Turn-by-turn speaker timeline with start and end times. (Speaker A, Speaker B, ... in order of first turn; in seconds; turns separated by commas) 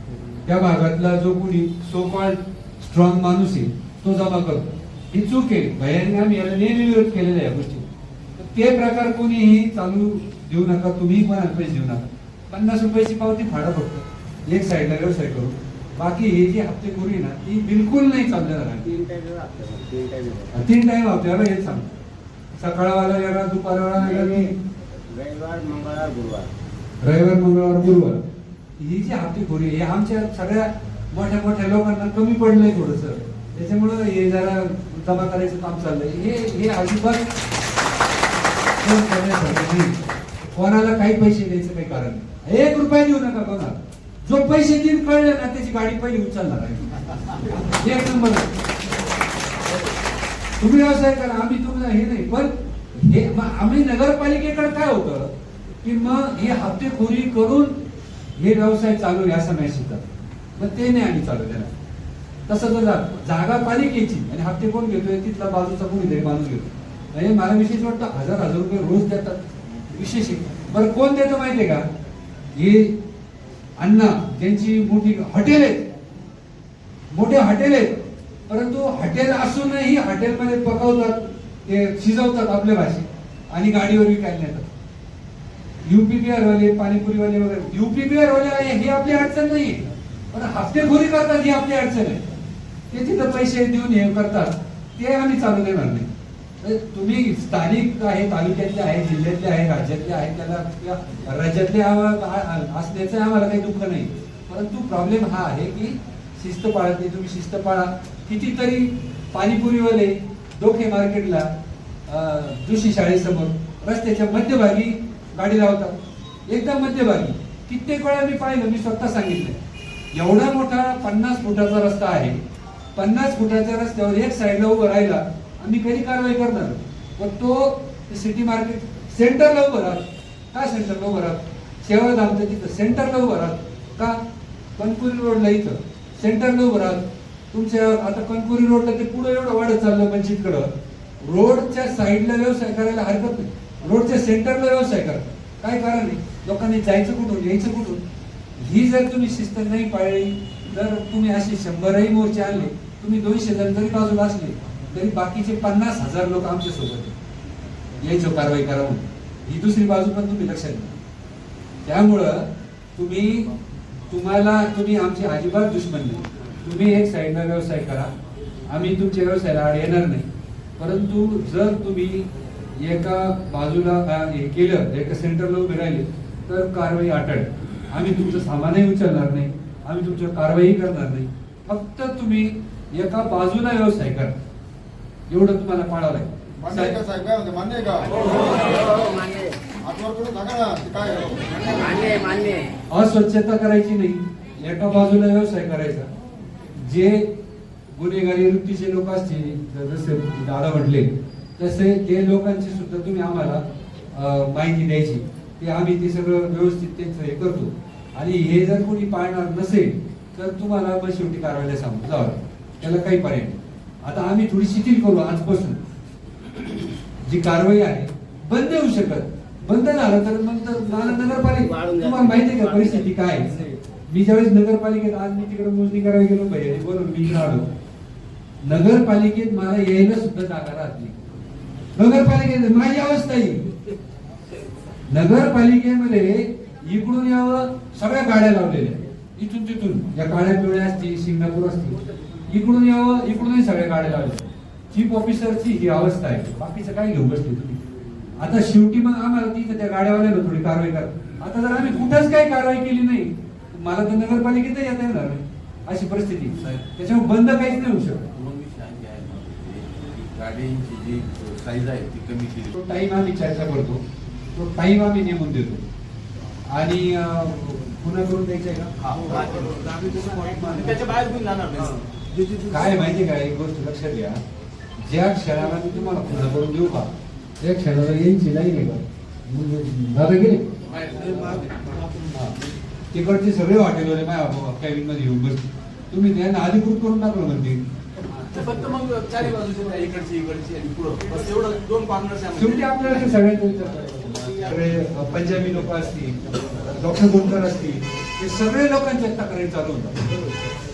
Speaker A: 0.5-18.9, Speaker B: 18.8-20.6, Speaker A: 20.5-22.0, Speaker A: 22.6-24.6, Speaker B: 23.9-26.5, Speaker A: 27.0-28.2, Speaker A: 28.8-37.3, Speaker A: 38.8-40.0, Speaker A: 40.5-48.5, Speaker A: 50.6-57.8, Speaker A: 58.4-61.7, Speaker A: 62.5-71.9, Speaker A: 72.6-73.0, Speaker A: 73.8-75.9, Speaker A: 77.1-84.7, Speaker A: 85.8-92.2, Speaker A: 92.9-96.1, Speaker A: 96.6-111.5, Speaker A: 112.1-116.0, Speaker A: 116.5-119.6, Speaker A: 120.1-122.4, Speaker A: 123.0-134.2, Speaker A: 134.8-140.7, Speaker A: 141.2-148.0, Speaker A: 148.6-157.2, Speaker A: 158.0-161.0, Speaker A: 161.8-163.5, Speaker A: 164.1-168.1, Speaker A: 168.7-170.3, Speaker A: 170.8-184.3, Speaker A: 185.3-187.0, Speaker C: 186.6-188.2, Speaker B: 188.3-189.6, Speaker C: 189.8-191.7, Speaker B: 191.7-192.7, Speaker A: 192.9-196.1, Speaker A: 196.8-197.3, Speaker A: 197.9-215.8, Speaker A: 217.3-223.5, Speaker B: 221.6-223.7, Speaker A: 224.1-227.7, Speaker A: 228.6-231.2, Speaker A: 231.9-233.6, Speaker A: 235.1-247.9, Speaker A: 248.4-258.3, Speaker D: 258.3-262.7, Speaker A: 262.7-264.0, Speaker A: 264.5-265.8, Speaker A: 266.7-268.9, Speaker D: 269.0-272.9, Speaker A: 269.7-271.1, Speaker A: 272.7-274.4, Speaker A: 275.0-280.8, Speaker D: 280.9-282.3, Speaker A: 282.3-282.6, Speaker A: 283.1-287.8, Speaker D: 288.4-293.2, Speaker A: 292.6-300.2